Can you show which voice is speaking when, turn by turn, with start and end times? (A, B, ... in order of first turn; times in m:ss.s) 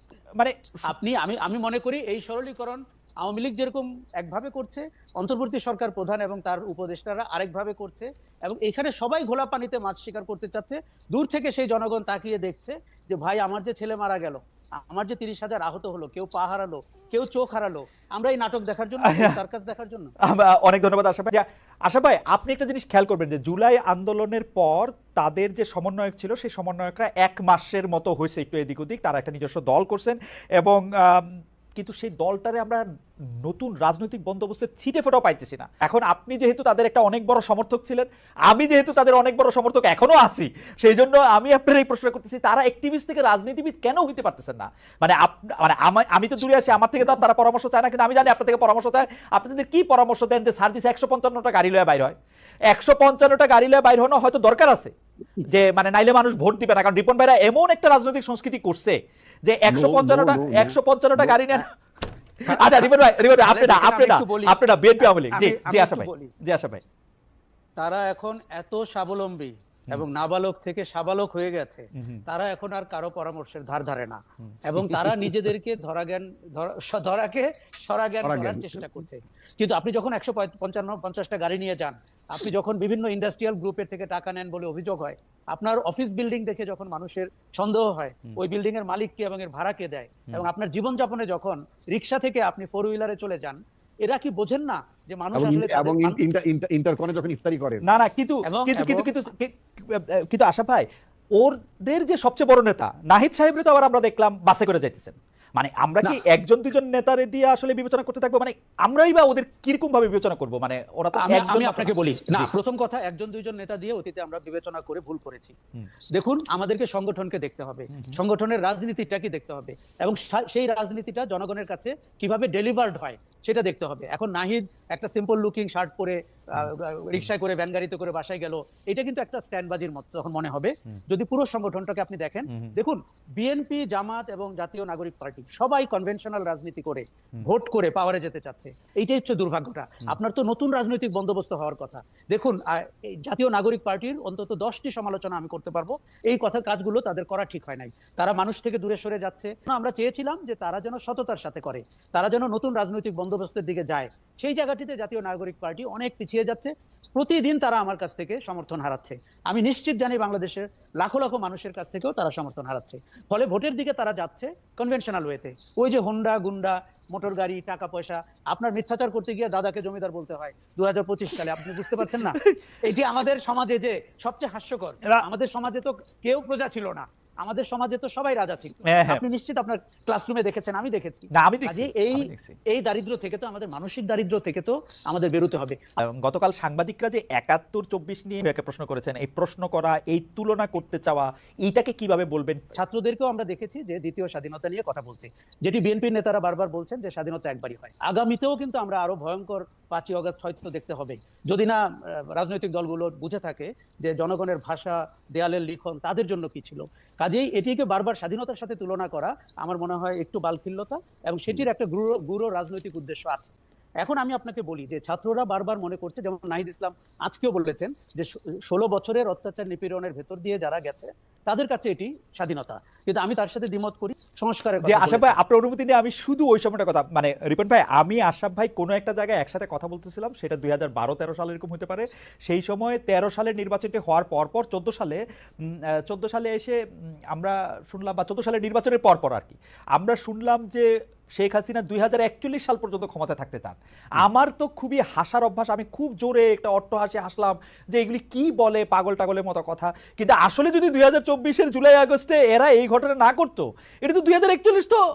0:00.4-0:00.9 A
0:00.9-0:20.1 B
0:19.0-0:19.4 A
0:20.2-0:32.8 A
0:33.4-0:52.1 A
0:52.7-0:54.9 A
0:55.4-1:01.7 A
0:59.7-1:01.4 C
1:02.4-1:06.3 B
1:02.5-1:06.8 A
1:07.8-1:36.2 B
1:12.0-1:12.2 A
1:18.2-1:18.7 C
1:35.3-1:37.8 C
1:37.8-1:40.8 A
1:38.5-1:39.1 B
1:41.4-1:52.5 A
1:51.1-1:55.5 B
1:56.1-3:05.8 B
2:12.5-2:12.7 A
2:52.0-2:52.5 A
2:58.8-2:59.2 A
3:01.3-3:02.5 A
3:06.0-3:12.7 A
3:12.8-3:21.8 B
3:22.3-3:45.4 B
3:44.8-3:55.2 A
3:56.0-3:56.8 A
3:57.3-4:15.0 A